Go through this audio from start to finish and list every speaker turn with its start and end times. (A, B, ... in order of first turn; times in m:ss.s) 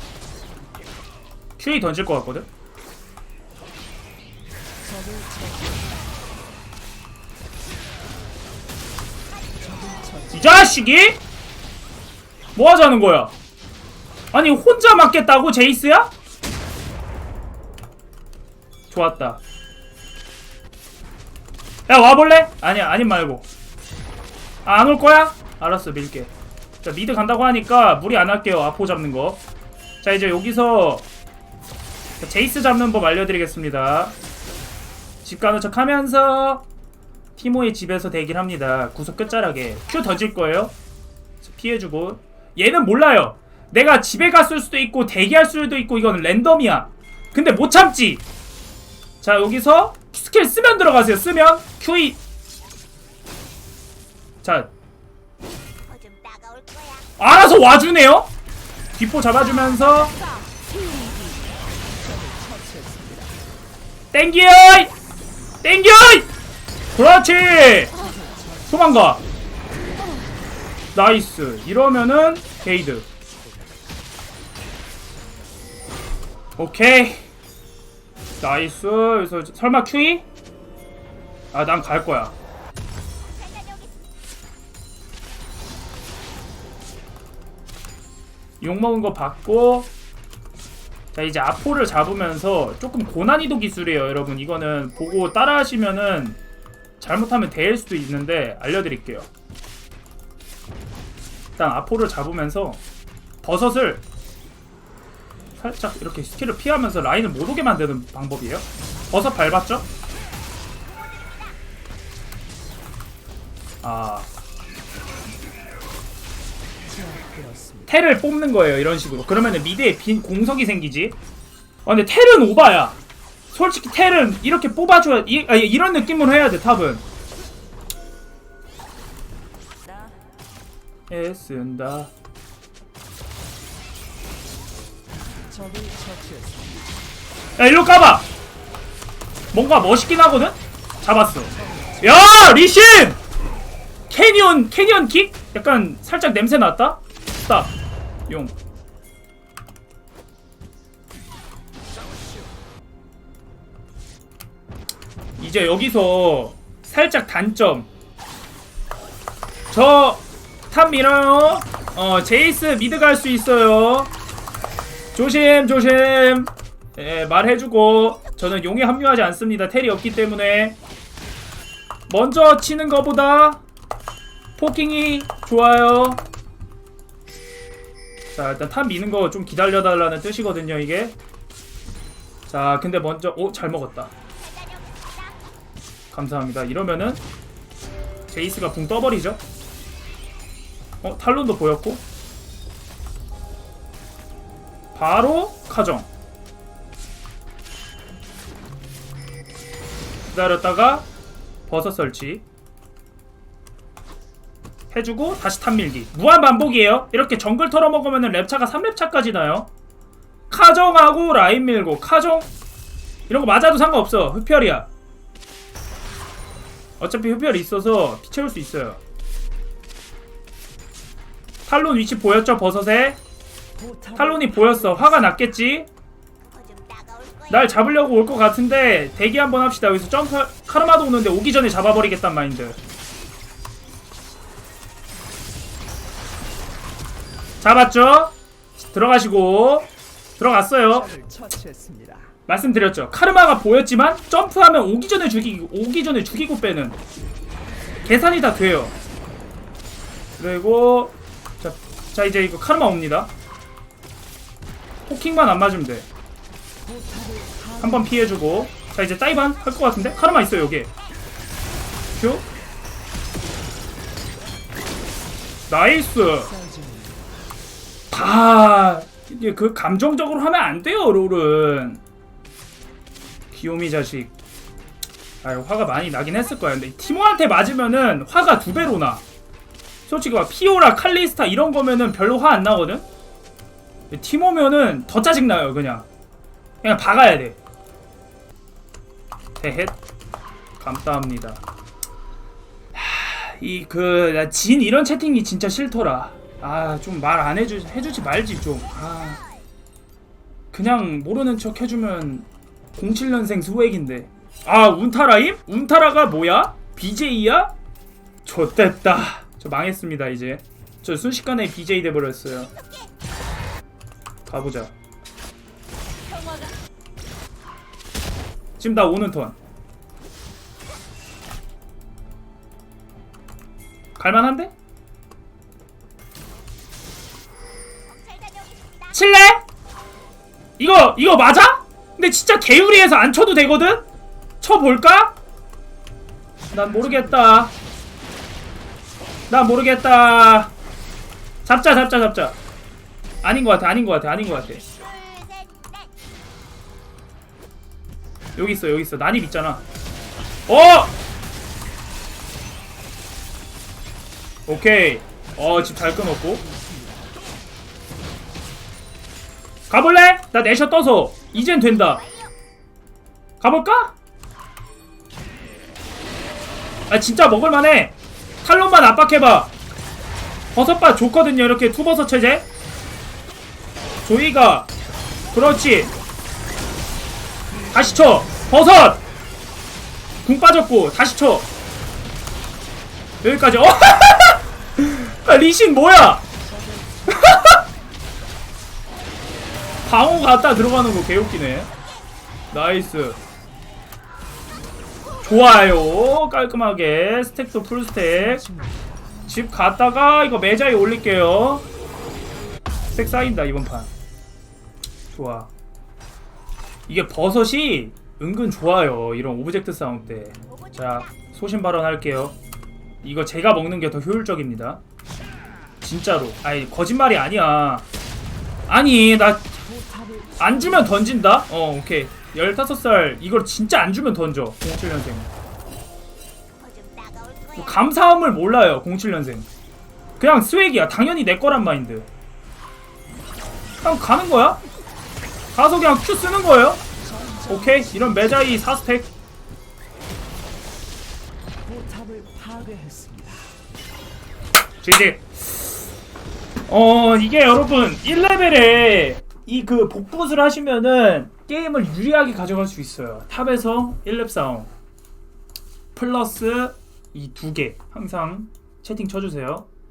0:01.6-0:02.5 A
0:04.8-0:05.9 B
0:09.6-0:10.4 B
0:10.3-0:11.2 A
0:12.6-0:13.4 A
0:14.3-0:16.1 A
0:18.9-0:19.4 A
0:21.9-0:23.5 A
0:24.6-0:26.3 A
0:26.8-0:29.4 A
0:30.0-0:31.1 A
0:32.2-0:34.2 A
0:35.2-0:36.6 A
0:37.4-0:40.7 A
0:41.4-0:48.2 A
0:49.2-0:52.2 A
0:54.4-0:54.7 A
0:55.9-0:57.1 C
0:57.2-0:58.3 A
0:59.0-1:00.2 A
1:00.9-1:01.2 B
1:02.0-1:03.4 B
1:04.1-1:04.9 A
1:05.6-1:06.3 A
1:07.0-1:08.1 A
1:08.1-1:08.5 B
1:08.7-1:09.2 A
1:10.9-1:13.1 A
1:16.6-1:17.3 A
1:18.4-1:20.3 A
1:21.5-1:22.3 A
1:23.4-1:23.9 C
1:28.6-1:29.9 A
1:31.1-1:36.4 A
1:37.0-1:39.3 A
1:41.6-1:42.8 A
1:43.4-1:44.0 A
1:45.6-1:49.9 A
1:53.8-1:54.3 A
1:56.9-1:57.9 B
1:57.9-2:01.2 A
2:01.8-2:03.0 A
2:03.5-2:07.0 A
2:11.1-2:12.1 A
2:15.5-2:17.0 B
2:17.6-2:18.3 A
2:19.5-2:23.2 A
2:21.6-2:22.0 B
2:24.1-2:27.7 A
2:28.3-2:28.5 A
2:35.4-2:37.9 A
2:39.7-2:44.1 A
2:45.2-2:50.8 A
2:52.1-2:53.6 A
2:54.6-2:56.2 A
2:58.3-3:01.2 A
3:02.5-3:04.1 A
3:04.5-3:05.1 C
3:06.1-3:07.2 A
3:08.3-3:09.4 A
3:11.0-3:12.0 A
3:15.0-3:16.1 A
3:20.3-3:21.1 A
3:21.7-3:22.4 A
3:24.9-3:29.7 A
3:30.5-3:32.5 A
3:33.3-3:34.9 A
3:37.0-3:39.0 A
3:41.7-3:43.2 A
3:43.8-3:45.0 B
3:44.2-3:45.9 A
3:46.5-3:47.5 C
3:47.5-3:52.8 A
3:57.6-4:01.1 A
4:01.0-4:02.3 B
4:02.5-4:07.0 A
4:08.0-4:08.9 A
4:10.4-4:13.3 A
4:15.1-4:16.1 A
4:16.8-4:18.0 B
4:17.8-4:20.9 A
4:22.2-4:22.5 A
4:25.7-4:26.5 A
4:26.5-4:27.4 B
4:28.1-4:32.0 A
4:33.5-4:34.3 A
4:35.4-4:39.2 A
4:40.1-4:43.1 A
4:44.1-4:46.1 A
4:46.8-4:47.6 A
4:49.6-4:50.0 A
4:50.8-4:51.6 A
4:52.9-4:59.4 A
5:00.7-5:02.5 A
5:03.0-5:07.7 A
5:08.4-5:12.7 A
5:14.5-5:14.9 A
5:16.3-5:16.8 C
5:18.8-5:19.6 A
5:24.2-5:24.7 A
5:28.1-5:29.1 C
5:29.1-5:29.6 A
5:30.8-5:34.0 A
5:34.6-5:35.4 A
5:36.7-5:37.7 A
5:39.5-5:40.7 A
5:41.6-5:42.6 A
5:43.4-5:44.9 A
5:44.9-5:46.0 C
5:48.6-5:49.8 A
5:50.7-5:51.2 A
5:54.7-5:56.6 A
5:56.2-5:57.4 B
5:59.9-6:02.3 A
6:03.6-6:04.1 A
6:07.1-6:09.7 A
6:10.7-6:12.7 A
6:14.2-6:14.9 A
6:15.5-6:16.1 A
6:17.7-6:18.5 B
6:17.9-6:19.2 A
6:20.4-6:21.7 A
6:23.4-6:26.4 A
6:26.7-6:27.6 B
6:27.3-6:27.8 A
6:30.1-6:31.9 A
6:32.7-6:33.4 A
6:35.4-6:38.7 A
6:38.7-6:39.1 B
6:39.5-6:41.8 A
6:43.1-6:44.1 A
6:45.3-6:45.7 A
6:47.1-6:52.6 A
6:53.2-6:55.0 A
6:56.0-6:58.1 A
6:58.9-6:59.8 A
6:59.9-7:00.7 B
7:00.6-7:05.5 A
7:06.8-7:07.8 C
7:07.8-7:09.7 A
7:10.4-7:12.3 A
7:14.0-7:14.8 A
7:15.7-7:17.0 A
7:17.3-7:18.1 B
7:17.7-7:19.3 A
7:21.8-7:23.8 B
7:25.0-7:26.0 A
7:26.9-7:34.9 A
7:36.2-7:39.9 A